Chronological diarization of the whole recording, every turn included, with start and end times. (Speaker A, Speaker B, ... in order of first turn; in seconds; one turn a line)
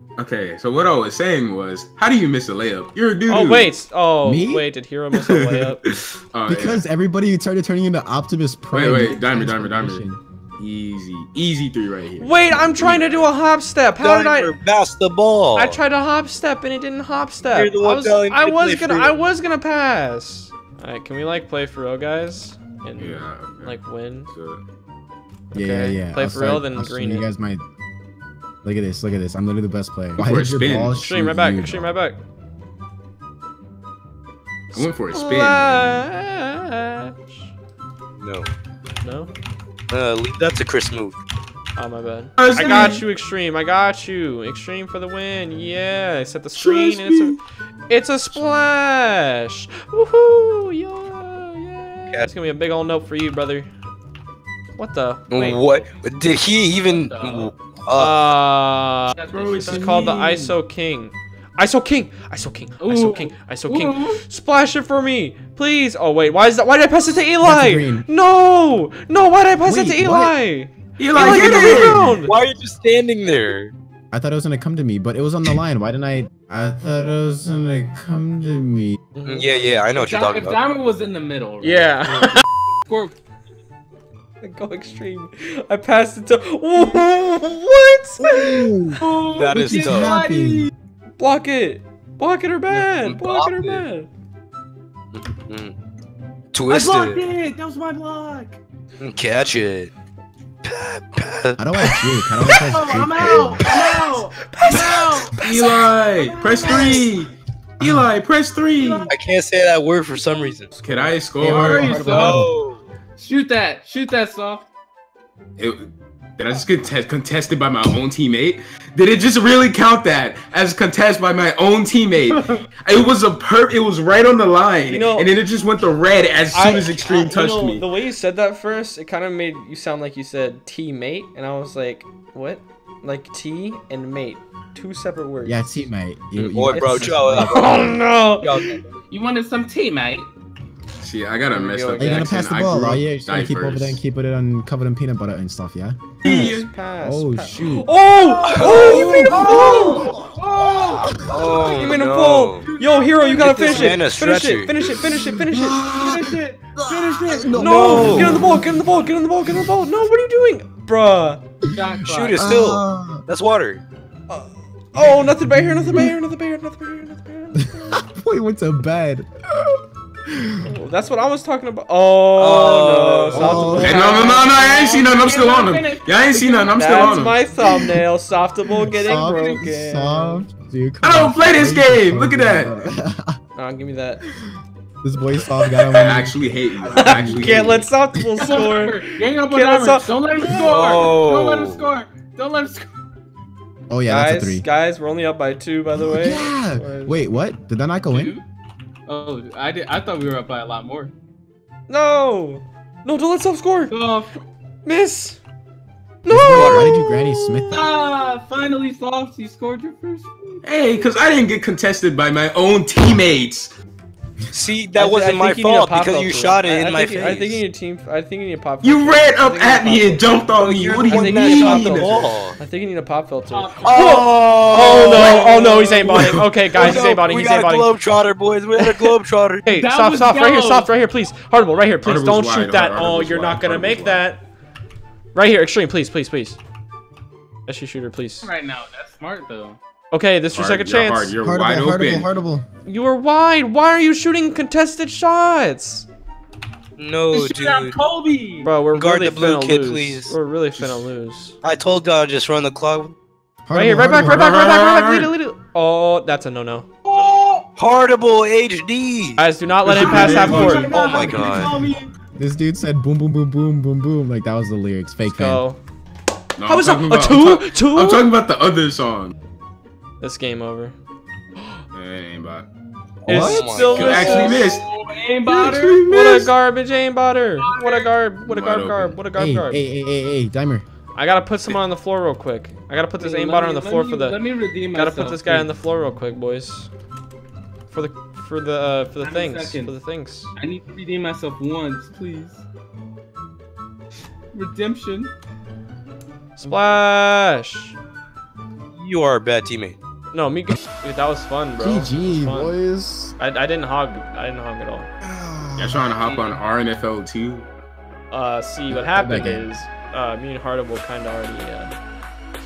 Speaker A: 0.2-3.7
Speaker B: 3.3-5.8
Speaker C: 4.2-4.7
Speaker A: 5.1-6.8
Speaker C: 6.5-10.2
Speaker A: 8.7-10.0
Speaker A: 10.6-13.3
Speaker B: 12.2-14.6
Speaker D: 14.0-15.8
Speaker B: 15.5-24.3
Speaker D: 17.5-19.1
Speaker A: 23.0-23.8
Speaker A: 24.3-24.6
Speaker C: 25.5-27.6
Speaker B: 25.5-27.3
Speaker C: 28.6-31.9
Speaker A: 30.2-31.0
Speaker B: 30.9-32.2
Speaker A: 34.7-36.1
Speaker B: 34.7-37.5
Speaker D: 38.2-38.5
Speaker B: 39.0-39.3
Speaker D: 39.9-41.2
Speaker B: 41.8-53.7
Speaker A: 42.4-43.0
Speaker A: 46.6-47.3
Speaker B: 54.8-55.6
Speaker D: 55.3-58.2
Speaker E: 55.6-55.9
Speaker E: 56.6-57.5
Speaker B: 58.0-72.3
Speaker E: 59.1-60.5
Speaker A: 59.3-60.3
Speaker E: 62.8-64.2
Speaker C: 67.4-68.1
Speaker C: 69.6-70.3
Speaker A: 71.0-72.1
Speaker C: 71.2-72.3
Speaker D: 72.2-73.7
Speaker C: 74.1-79.0
Speaker B: 79.1-79.7
Speaker D: 79.2-80.6
Speaker E: 79.9-81.8
Speaker B: 81.6-82.4
Speaker E: 82.8-83.1
Speaker B: 84.4-88.6
Speaker C: 88.2-90.7
Speaker E: 89.0-90.7
Speaker D: 89.3-90.2
Speaker B: 91.2-94.1
Speaker D: 93.0-93.9
Speaker D: 95.1-95.7
Speaker D: 96.5-97.2
Speaker E: 96.7-98.6
Speaker D: 99.0-99.9
Speaker D: 100.6-101.6
Speaker C: 101.6-103.6
Speaker E: 102.5-107.2
Speaker B: 102.5-105.9
Speaker A: 105.3-109.1
Speaker C: 107.8-108.1
Speaker E: 108.8-109.1
Speaker D: 109.1-110.7
Speaker B: 110.8-111.1
Speaker A: 110.8-112.1
Speaker C: 111.4-112.5
Speaker E: 111.4-112.5
Speaker D: 112.0-112.8
Speaker E: 113.2-114.7
Speaker A: 115.6-127.8
Speaker B: 124.9-125.3
Speaker B: 126.5-135.8
Speaker C: 135.4-137.7
Speaker D: 136.3-138.8
Speaker B: 136.7-138.8
Speaker E: 139.1-140.3
Speaker A: 141.0-144.0
Speaker B: 141.5-142.3
Speaker C: 142.0-147.9
Speaker B: 146.2-150.1
Speaker A: 146.2-146.6
Speaker D: 148.4-149.3
Speaker E: 148.5-154.2
Speaker C: 148.6-151.6
Speaker D: 151.3-152.7
Speaker B: 151.7-155.9
Speaker D: 153.4-154.7
Speaker C: 154.8-159.8
Speaker E: 155.8-158.3
Speaker B: 157.5-161.4
Speaker D: 157.6-158.4
Speaker C: 161.6-163.2
Speaker E: 161.7-162.6
Speaker D: 162.1-163.8
Speaker B: 164.3-168.1
Speaker C: 164.9-166.2
Speaker C: 167.5-170.7
Speaker B: 170.7-174.5
Speaker D: 172.4-173.8
Speaker C: 173.3-174.0
Speaker A: 173.8-177.4
Speaker E: 173.8-177.2
Speaker B: 176.7-180.4
Speaker C: 177.6-178.0
Speaker C: 178.7-183.4
Speaker A: 181.0-182.7
Speaker B: 183.6-184.2
Speaker C: 184.2-188.5
Speaker A: 185.9-187.9
Speaker B: 187.0-190.1
Speaker E: 188.4-192.9
Speaker D: 190.5-191.9
Speaker C: 193.9-194.7
Speaker B: 194.1-197.2
Speaker C: 195.9-198.3
Speaker E: 198.1-198.4
Speaker E: 199.1-201.1
Speaker B: 201.9-203.9
Speaker E: 203.9-204.4
Speaker B: 204.8-205.4
Speaker B: 206.2-207.8
Speaker C: 206.3-207.8
Speaker D: 206.4-206.9
Speaker E: 207.7-210.6
Speaker A: 210.6-213.7
Speaker D: 214.5-217.6
Speaker B: 215.0-227.9
Speaker A: 218.8-222.1
Speaker D: 220.9-222.6
Speaker E: 223.5-225.8
Speaker D: 223.8-229.7
Speaker A: 226.1-226.7
Speaker B: 228.8-229.1
Speaker B: 229.7-234.4
Speaker E: 229.7-230.9
Speaker A: 232.0-234.3
Speaker B: 235.3-236.6
Speaker B: 237.7-238.5
Speaker E: 238.4-239.8
Speaker B: 240.1-241.3
Speaker A: 240.5-242.3
Speaker C: 241.4-242.7
Speaker B: 242.8-246.1
Speaker D: 247.0-248.0
Speaker E: 247.3-248.7
Speaker B: 248.6-251.6
Speaker D: 248.9-250.3
Speaker D: 251.6-253.1
Speaker C: 253.7-254.4
Speaker B: 253.7-256.9
Speaker A: 254.1-255.3
Speaker E: 257.0-257.7
Speaker D: 257.8-259.4
Speaker B: 259.4-261.4
Speaker A: 259.8-260.9
Speaker E: 260.0-262.1
Speaker D: 260.7-261.7
Speaker C: 262.4-265.6
Speaker B: 265.2-265.8
Speaker A: 266.6-269.3
Speaker B: 266.6-268.3
Speaker B: 270.2-270.9
Speaker A: 271.9-272.7
Speaker C: 273.2-273.7
Speaker B: 273.2-274.7
Speaker D: 273.3-274.5
Speaker E: 273.5-276.1
Speaker A: 273.8-274.8
Speaker C: 275.6-276.4
Speaker B: 276.1-279.8
Speaker E: 277.6-278.1
Speaker A: 278.4-279.2
Speaker C: 279.4-280.8
Speaker B: 281.1-284.4
Speaker E: 283.2-285.7
Speaker B: 284.9-286.9
Speaker B: 287.9-290.5
Speaker E: 289.2-289.9
Speaker E: 290.6-292.6
Speaker E: 294.5-295.3
Speaker B: 296.6-297.9
Speaker D: 298.9-300.0
Speaker B: 300.3-302.8
Speaker C: 301.8-303.4
Speaker B: 303.4-305.1
Speaker C: 305.2-306.1
Speaker A: 305.8-307.7
Speaker B: 308.3-311.9
Speaker C: 308.9-309.7